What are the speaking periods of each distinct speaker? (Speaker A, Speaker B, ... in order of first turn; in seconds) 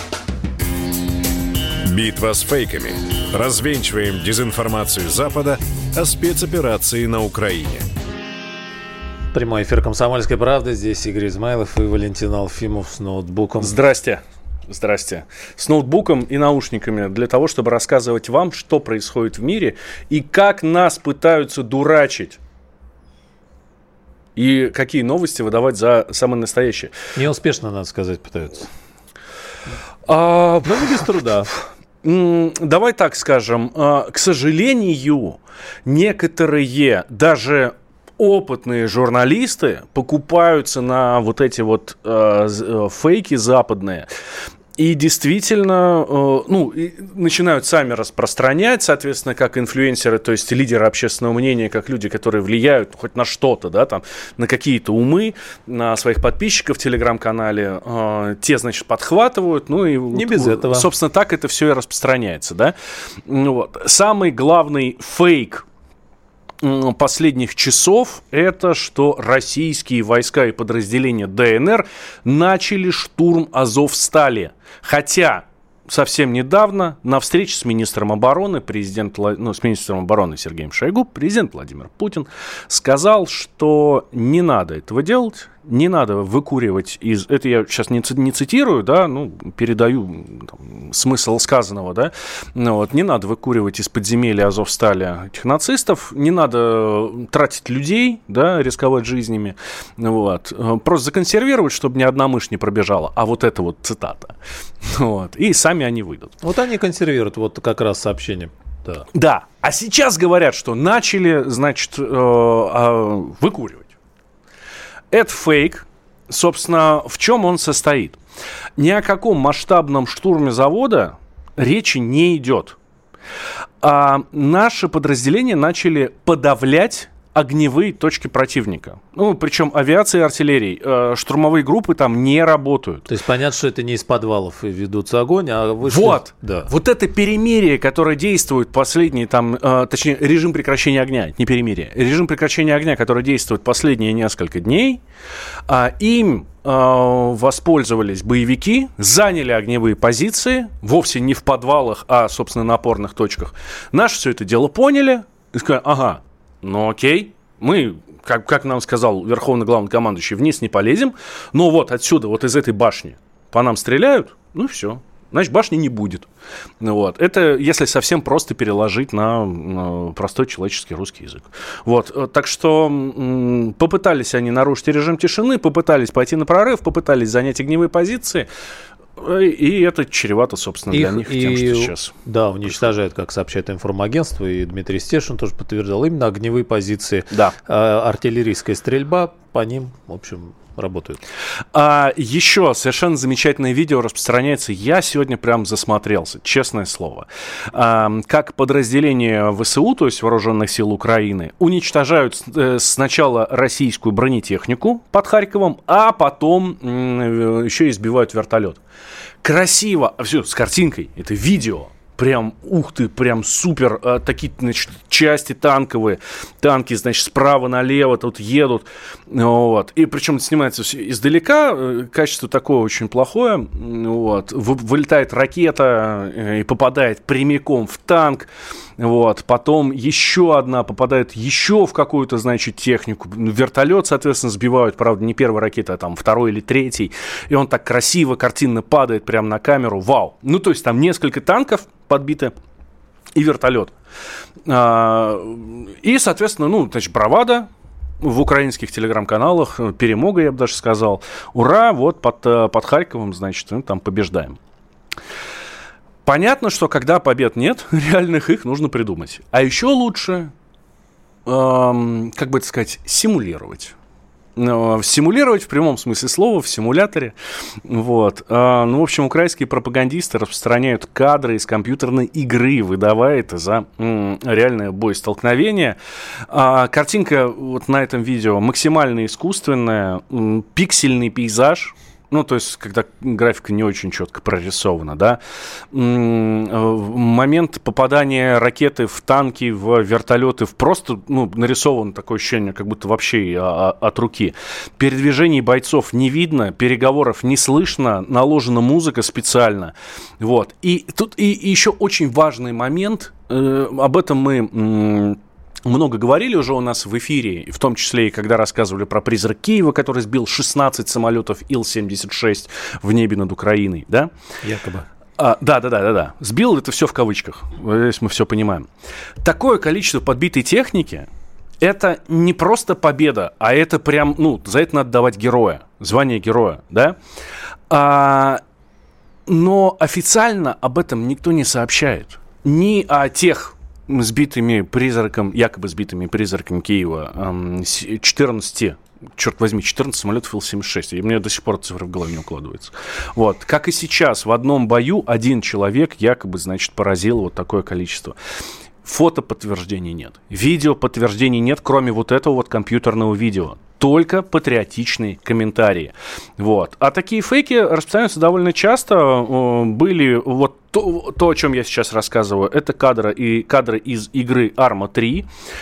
Speaker A: 1.8-7.8
Speaker B: 9.3-13.8, 27.1-28.7, 60.1-60.9, 106.4-109.0, 133.1-136.7, 180.9-191.2, 314.6-315.1
Speaker C: 13.6-22.4, 24.4-26.9, 30.1-31.5, 32.0-44.1, 44.8-62.7, 63.2-65.6, 66.6-106.3, 109.1-113.9, 115.1-118.2, 118.8-122.8, 123.8-133.1, 135.8-145.0, 145.7-166.3, 166.8-178.5, 179.2-182.1, 191.7-208.8, 209.4-242.5, 243.3-243.9, 244.7-247.7, 248.2-254.6, 256.2-260.5, 261.4-263.9, 264.6-267.4, 267.9-285.4, 285.9-314.3, 315.4-318.9, 319.4-321.3, 321.8-327.2, 327.9-328.6, 329.5-348.4, 349.0-365.5